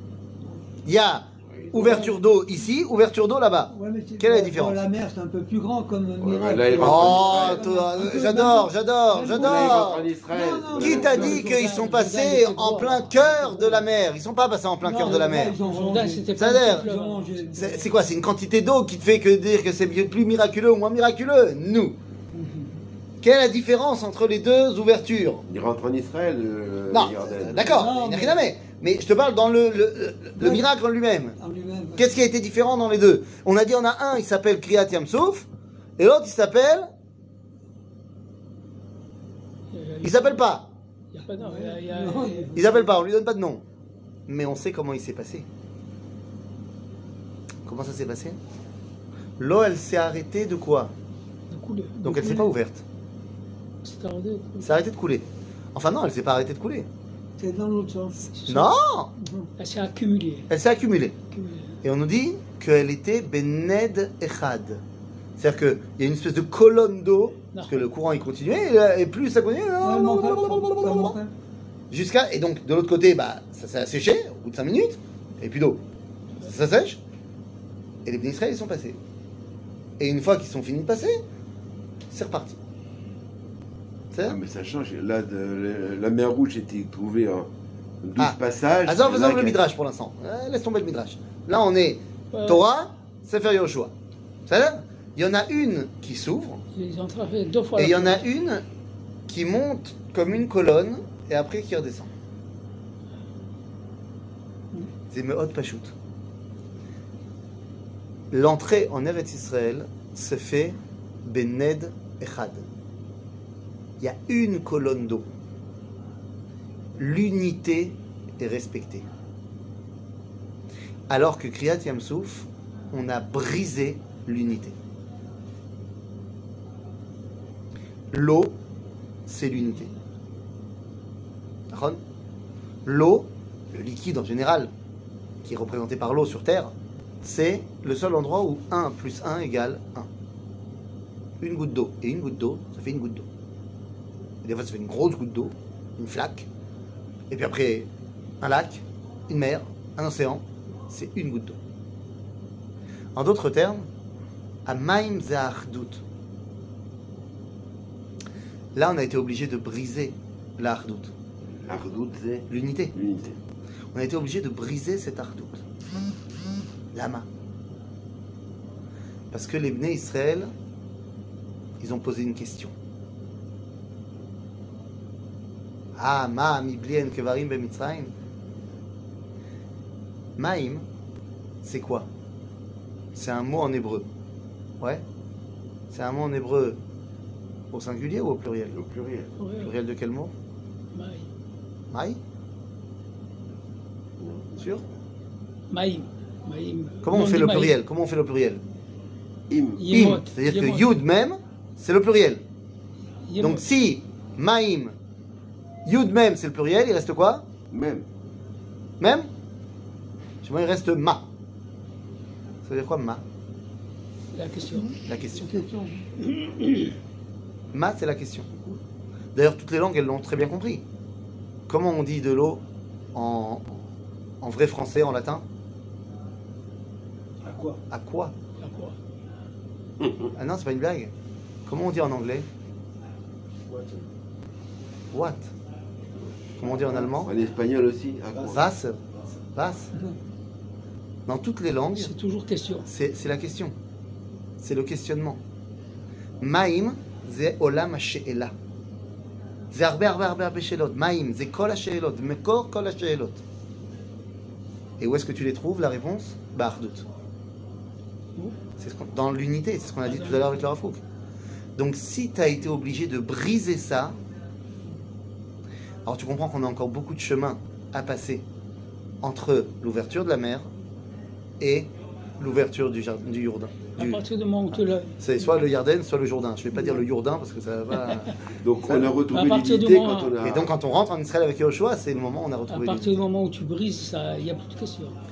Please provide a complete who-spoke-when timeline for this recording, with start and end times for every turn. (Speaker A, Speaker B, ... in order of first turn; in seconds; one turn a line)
Speaker A: 0.9-4.8
Speaker B: 1.7-2.1
Speaker B: 3.7-11.5
Speaker C: 6.2-7.7
Speaker A: 6.7-10.1
Speaker C: 9.3-11.4
Speaker A: 10.8-15.6
Speaker D: 11.0-13.8
Speaker B: 14.8-17.9
Speaker D: 15.6-17.8
Speaker A: 16.4-16.9
Speaker A: 17.6-21.9
Speaker A: 23.2-25.4
Speaker C: 25.5-27.9
Speaker A: 26.9-31.4
Speaker B: 27.6-28.5
Speaker B: 30.4-30.7
Speaker B: 31.4-32.1
Speaker A: 32.0-36.9
Speaker D: 39.7-40.5
Speaker A: 40.0-40.7
Speaker D: 41.1-42.6
Speaker B: 41.4-42.9
Speaker A: 42.5-43.6
Speaker A: 44.3-45.5
Speaker A: 47.6-48.4
Speaker A: 49.4-50.9
Speaker D: 51.5-52.5
Speaker A: 52.0-52.8
Speaker D: 53.8-54.7
Speaker A: 54.6-56.9
Speaker B: 57.4-58.3
Speaker D: 58.4-58.7
Speaker A: 58.5-59.1
Speaker B: 59.2-59.5
Speaker D: 59.6-60.5
Speaker A: 60.5-61.1
Speaker D: 61.3-61.8
Speaker A: 61.8-64.8
Speaker A: 65.4-71.2
Speaker D: 67.5-67.8
Speaker B: 69.8-71.3
Speaker A: 71.9-75.8
Speaker A: 76.4-77.0
Speaker A: 78.0-79.0
Speaker A: 80.0-81.2
Speaker A: 82.1-82.6
Speaker A: 84.1-84.4
Speaker C: 84.2-87.5
Speaker C: 88.0-89.6
Speaker A: 88.2-93.9
Speaker D: 92.3-92.6
Speaker A: 94.5-96.6
Speaker D: 96.7-98.2
Speaker A: 97.8-98.6
Speaker A: 99.3-102.1
Speaker A: 105.1-105.9
Speaker A: 108.3-112.7
Speaker A: 114.0-115.3
Speaker A: 117.0-119.1
Speaker A: 121.1-124.8
Speaker A: 128.1-128.6
Speaker A: 129.3-129.9
Speaker A: 131.7-132.0
Speaker A: 132.8-134.7
Speaker A: 135.4-140.1
Speaker A: 141.4-143.3
Speaker A: 144.4-146.5
Speaker A: 147.3-147.9
Speaker A: 148.4-151.6
Speaker A: 153.2-153.9
Speaker A: 154.7-156.0
Speaker A: 158.8-161.1
Speaker C: 161.5-163.4
Speaker A: 162.5-162.9
Speaker A: 163.9-165.6
Speaker A: 166.9-167.3
Speaker A: 169.3-170.5
Speaker A: 171.8-172.8
Speaker A: 175.9-178.1
Speaker A: 180.4-180.9
Speaker A: 181.6-182.1
Speaker A: 183.1-184.1
Speaker A: 185.9-186.8
Speaker A: 187.7-188.8
Speaker C: 188.7-189.3
Speaker D: 189.4-189.7
Speaker A: 189.6-190.3
Speaker D: 190.9-191.3
Speaker A: 191.9-192.2
Speaker C: 194.2-194.5
Speaker A: 194.6-194.8
Speaker D: 195.7-197.8
Speaker A: 197.0-198.6
Speaker C: 199.5-199.9
Speaker D: 199.8-201.0
Speaker A: 199.9-202.4
Speaker D: 203.3-203.6
Speaker A: 203.4-204.9
Speaker A: 205.9-207.5
Speaker C: 207.7-208.1
Speaker A: 209.0-209.3
Speaker A: 210.4-211.3
Speaker A: 212.6-213.2
Speaker D: 214.3-215.0
Speaker B: 214.8-216.1
Speaker A: 215.1-215.6
Speaker D: 216.2-216.9
Speaker A: 217.7-218.5
Speaker A: 219.3-220.8
Speaker A: 221.7-222.6
Speaker A: 223.1-223.9
Speaker A: 224.4-225.4
Speaker E: 227.4-227.8
Speaker A: 227.9-228.3
Speaker D: 228.6-229.0
Speaker A: 230.3-231.1
Speaker A: 231.7-232.5
Speaker E: 233.7-234.1
Speaker A: 235.1-235.5
Speaker A: 236.6-237.3
Speaker E: 236.6-237.1
Speaker C: 237.1-238.7
Speaker E: 238.3-239.3
Speaker A: 238.5-239.0
Speaker A: 239.5-239.9
Speaker A: 241.3-242.1
Speaker D: 241.9-242.9
Speaker A: 242.9-243.8
Speaker A: 244.6-245.4
Speaker A: 246.4-248.5
Speaker A: 249.7-253.4
Speaker A: 255.0-257.1
Speaker A: 258.8-261.0
Speaker D: 260.1-260.7
Speaker A: 261.8-264.1
Speaker A: 266.1-268.4
Speaker A: 269.2-270.7
Speaker A: 271.6-278.4
Speaker D: 274.0-275.1
Speaker D: 278.0-278.3
Speaker C: 278.6-280.7
Speaker A: 278.9-279.1
Speaker D: 279.3-280.3
Speaker A: 280.4-283.2
Speaker D: 282.7-285.2